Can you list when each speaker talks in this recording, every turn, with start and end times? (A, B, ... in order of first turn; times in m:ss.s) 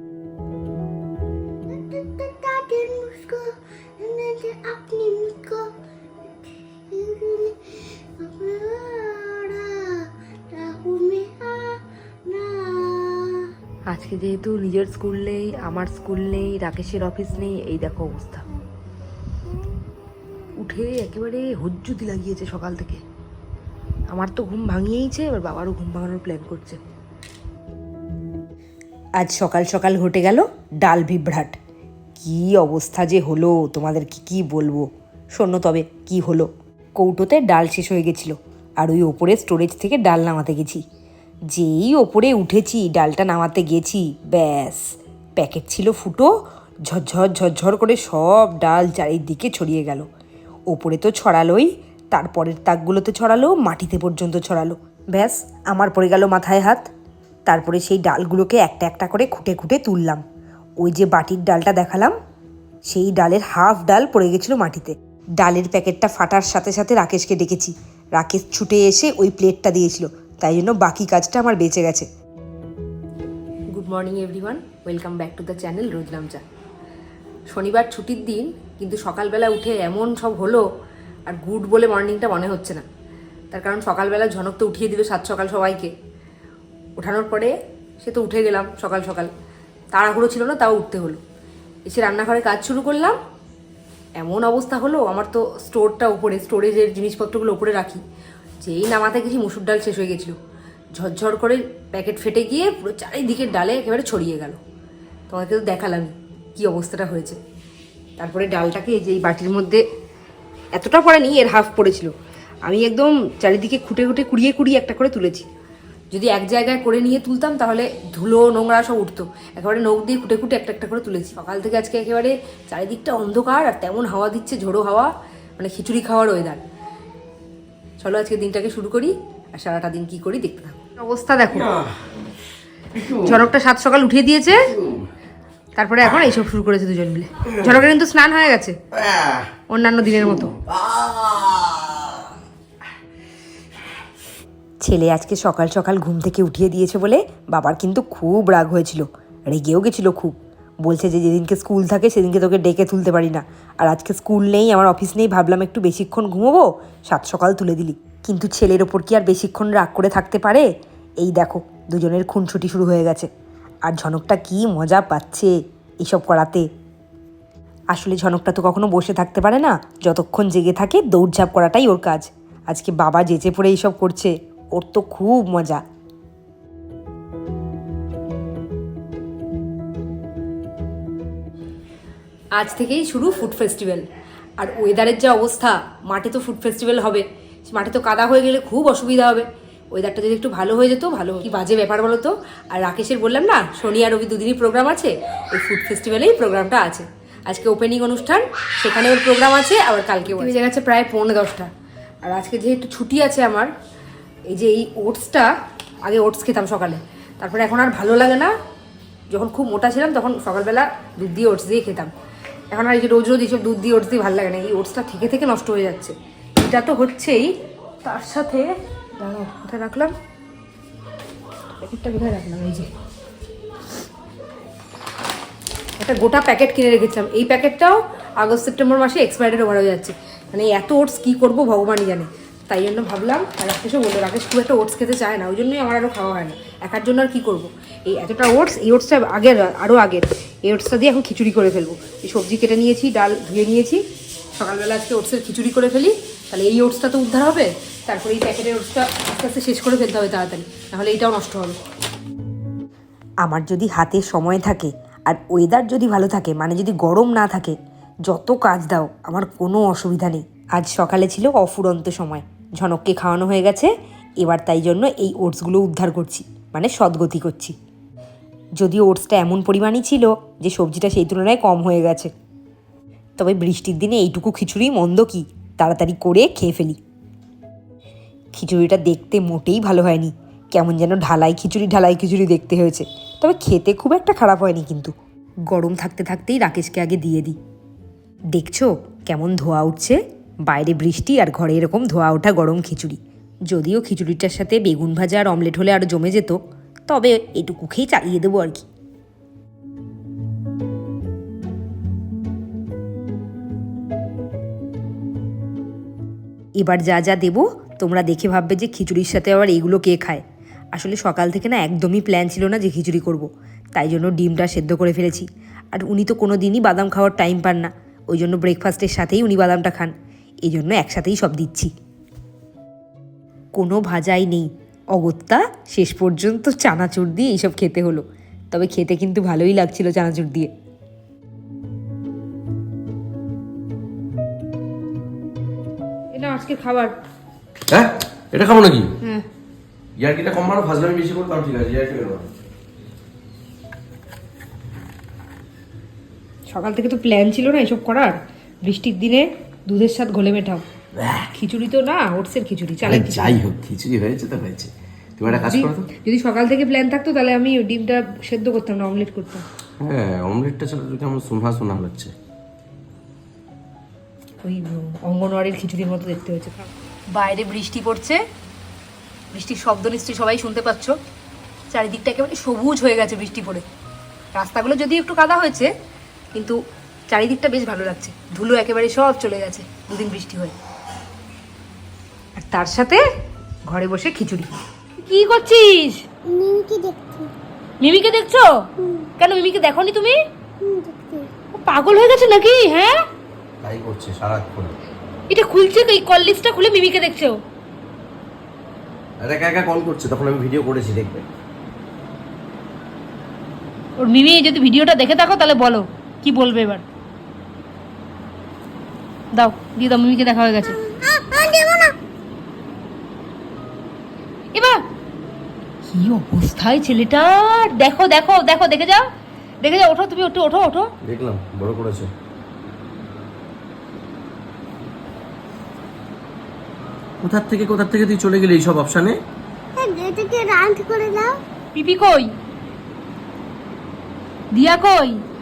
0:01.7-0:05.7 A
0:06.9-0:13.5 A
0:13.9-0:18.4 B
0:20.6-0:23.0 B
0:24.1-0:26.8 B
0:29.2-0:31.6 B
0:32.2-0:40.8 B
0:41.5-0:44.8 B
0:45.4-0:46.3 B
0:46.9-0:50.0 B
0:50.7-0:56.9 B
0:57.5-1:00.2 B
1:00.8-1:02.2 B
1:02.9-1:12.1 B
1:13.7-1:16.4 B
1:17.5-1:20.6 B
1:21.3-1:22.8 B
1:23.5-1:25.9 B
1:27.0-1:29.3 B
1:29.9-1:31.2 B
1:31.9-1:33.2 B
1:34.2-1:38.0 B
1:38.6-1:40.4 B
1:41.0-1:44.6 B
1:45.3-1:47.4 B
1:48.2-1:49.8 B
1:50.7-1:52.1 B
1:52.6-1:55.5 B
1:56.1-2:06.6 B
2:08.0-2:11.7 B
2:12.9-2:13.4 C
2:13.2-2:14.7 B
2:14.7-2:15.1 C
2:15.8-2:18.8 B
2:19.0-2:19.4 C
2:19.7-2:20.5 B
2:20.6-2:21.7 C
2:24.8-2:40.7 B
2:41.2-2:43.3 B
2:43.8-2:46.7 B
2:47.9-2:55.8 B
3:02.5-3:04.0 B
3:04.6-3:21.7 B
3:22.2-3:23.7 B
3:24.5-3:25.5 B
3:26.0-3:28.5 B
3:29.3-3:32.1 B
3:32.7-3:37.5 B
3:38.0-3:38.7 B
3:39.2-3:40.1 B
3:41.8-3:42.9 B
3:46.0-4:04.0 B
4:04.6-4:11.8 B
4:13.4-4:17.8 B
4:18.3-4:27.7 B
4:28.8-4:32.3 B
4:33.4-4:37.0 B
4:38.5-4:45.1 B
4:45.7-4:47.6 B
4:48.5-4:58.9 B
5:06.8-5:10.4 B
5:10.9-5:20.1 B
5:20.6-5:21.9 B
5:23.7-5:30.7 B
5:36.3-5:37.1 B
5:37.9-5:39.1 C
5:40.2-5:42.5 C
5:46.7-5:50.8 B
5:51.1-5:51.5 C
5:51.5-5:53.6 B
5:53.0-5:56.1 C
5:55.5-5:59.6 B
6:00.0-6:02.3 C
6:04.6-6:08.4 B
6:09.5-6:11.2 B
6:11.9-6:13.8 B
6:14.5-6:15.9 B
6:17.3-6:20.7 B
6:22.6-6:23.2 B
6:23.9-6:26.2 B
6:26.5-6:27.5 A
6:28.0-6:28.7 B
6:29.0-6:29.3 A
6:29.4-6:30.4 B
6:30.8-6:31.5 A
6:31.7-6:33.2 B
6:33.8-6:35.0 C
6:35.5-6:37.6 B
6:39.4-6:41.5 C
6:44.2-6:47.0 B
6:49.5-6:51.0 B
6:50.9-6:52.2 A
6:54.7-6:55.0 B
6:56.0-6:59.3 B
6:59.8-7:01.1 B
7:01.2-7:02.3 C
7:07.4-7:09.4 C
7:10.0-7:11.6 A
7:11.9-7:12.5 B
7:14.7-7:15.4 B